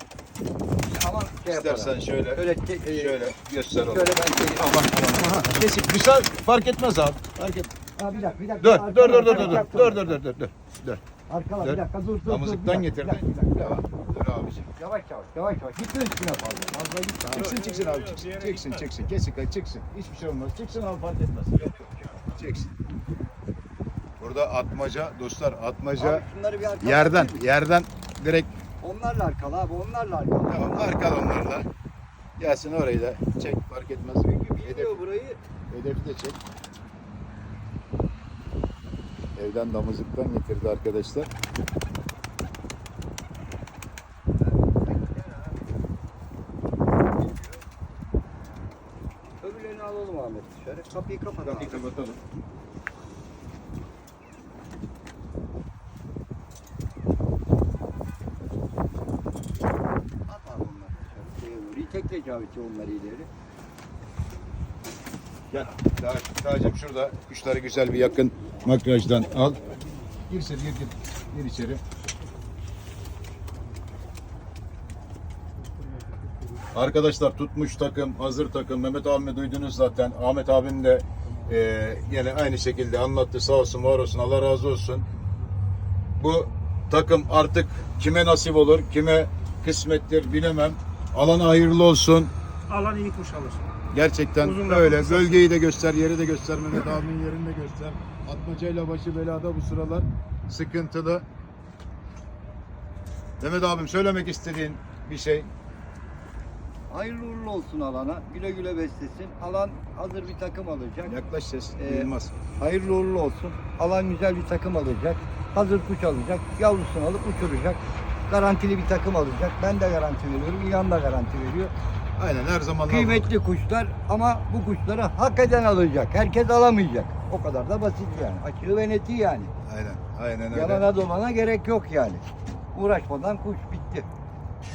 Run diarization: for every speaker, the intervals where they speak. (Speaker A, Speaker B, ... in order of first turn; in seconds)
Speaker A: 0.9-5.5, 8.0-10.2, 11.3-13.8, 14.8-17.6, 26.0-27.4, 28.8-31.0, 34.2-35.4, 44.4-45.7, 47.2-47.6, 49.4-51.9, 60.3-63.3, 106.9-111.2, 111.8-121.7, 122.9-129.5, 130.5-134.1
Speaker B: 1.5-7.7, 8.6-11.0, 11.6-14.7, 17.3-22.7, 24.2-26.2, 26.8-28.5, 30.5-31.7, 32.4-35.0, 35.7-36.4, 39.4-41.3, 51.4-52.2, 65.5-69.6, 70.3-71.8, 76.7-85.0, 86.2-92.3, 93.9-101.2, 103.4-105.5, 111.1-112.3, 122.2-123.3, 129.7-130.8
Speaker C: 9.1-9.8, 17.4-18.9, 92.7-93.7, 94.4-95.4